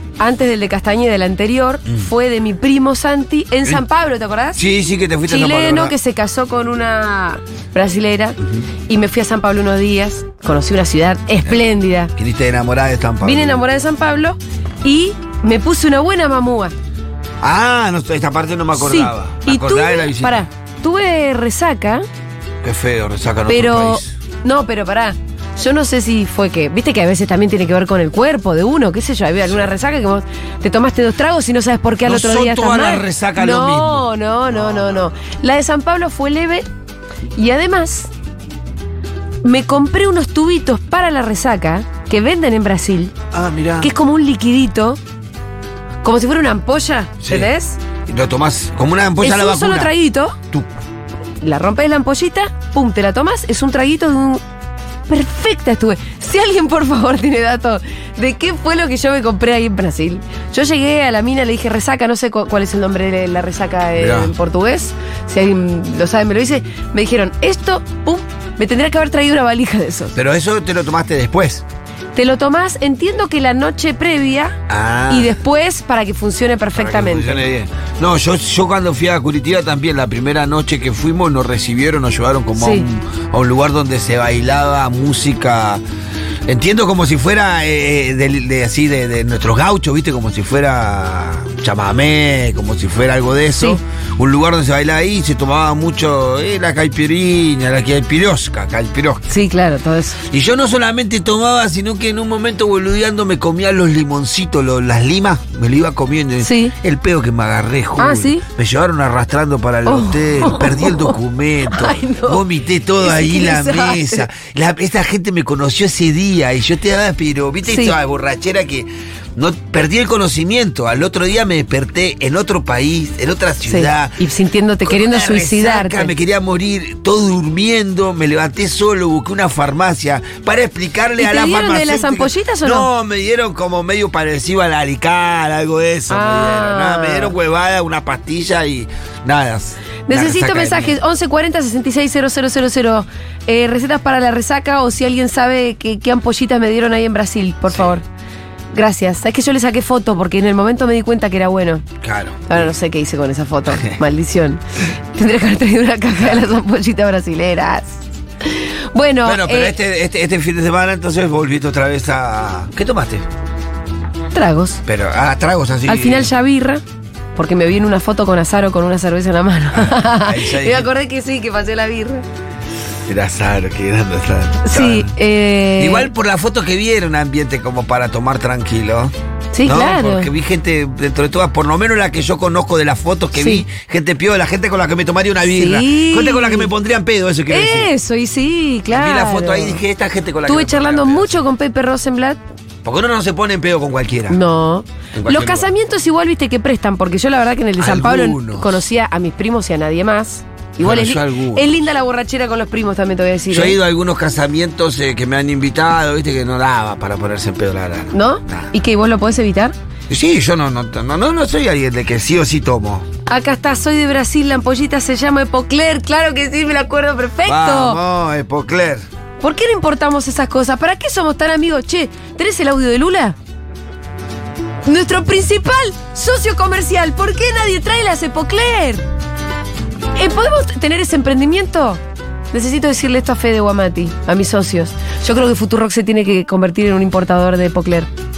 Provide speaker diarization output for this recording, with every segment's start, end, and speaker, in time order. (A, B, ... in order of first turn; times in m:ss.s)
0:00.2-0:04.6 A
0:04.5-0:05.9 B
0:05.2-0:12.1 A
0:12.1-0:13.6 B
0:13.2-0:16.7 A
0:17.4-0:20.4 B
0:18.8-0:22.0 A
0:22.6-0:24.1 B
0:23.5-0:36.6 A
0:32.0-0:35.1 B
0:37.4-0:38.1 A
0:39.4-0:43.1 A
0:43.3-0:43.9 B
0:43.8-0:45.0 A
0:46.0-0:47.8 A
0:47.2-0:47.5 B
0:48.1-0:49.9 B
0:49.2-0:50.4 A
0:51.4-0:54.4 A
0:55.1-1:10.2 A
1:04.0-1:04.3 B
1:10.2-1:11.6 B
1:12.1-1:17.5 A
1:14.7-1:15.3 B
1:16.8-1:25.8 B
1:22.6-1:22.8 A
1:26.5-1:39.2 B
1:39.3-1:40.2 A
1:40.3-2:04.2 B
1:46.4-1:46.7 A
1:48.0-1:48.4 A
1:49.8-1:51.2 A
1:51.7-1:52.4 A
1:53.0-1:54.3 A
1:57.6-1:58.0 A
2:03.6-2:06.1 A
2:04.8-2:20.9 B
2:11.2-2:12.9 A
2:16.1-2:17.3 A
2:20.1-2:28.0 A
2:27.7-2:27.9 B
2:28.7-2:31.8 A
2:32.0-2:32.7 B
2:32.5-2:34.6 A
2:35.2-2:38.0 A
2:36.2-2:36.5 B
2:38.6-2:39.8 A
2:39.2-2:43.2 B
2:44.3-2:44.8 A
2:44.8-2:46.3 B
2:45.9-2:46.8 A
2:47.4-2:52.2 A
2:49.7-2:50.9 B
2:53.1-2:55.1 B
2:54.6-2:56.1 A
2:55.8-2:59.1 B
2:59.5-3:00.3 A
2:59.6-3:07.9 B
3:03.3-3:03.6 A
3:05.4-3:06.7 A
3:07.5-3:09.8 A
3:08.9-3:11.4 B
3:10.4-3:12.4 A
3:12.8-3:14.4 B
3:14.3-3:23.8 A
3:15.1-3:15.7 B
3:17.8-3:18.8 B
3:20.8-3:21.7 B
3:23.5-3:28.7 B
3:28.1-3:29.8 A
3:30.1-3:33.1 B
3:33.3-3:38.0 A
3:37.5-3:39.0 B
3:39.4-3:43.4 A
3:44.8-3:49.0 A
3:50.2-3:52.0 A
3:52.5-3:58.1 A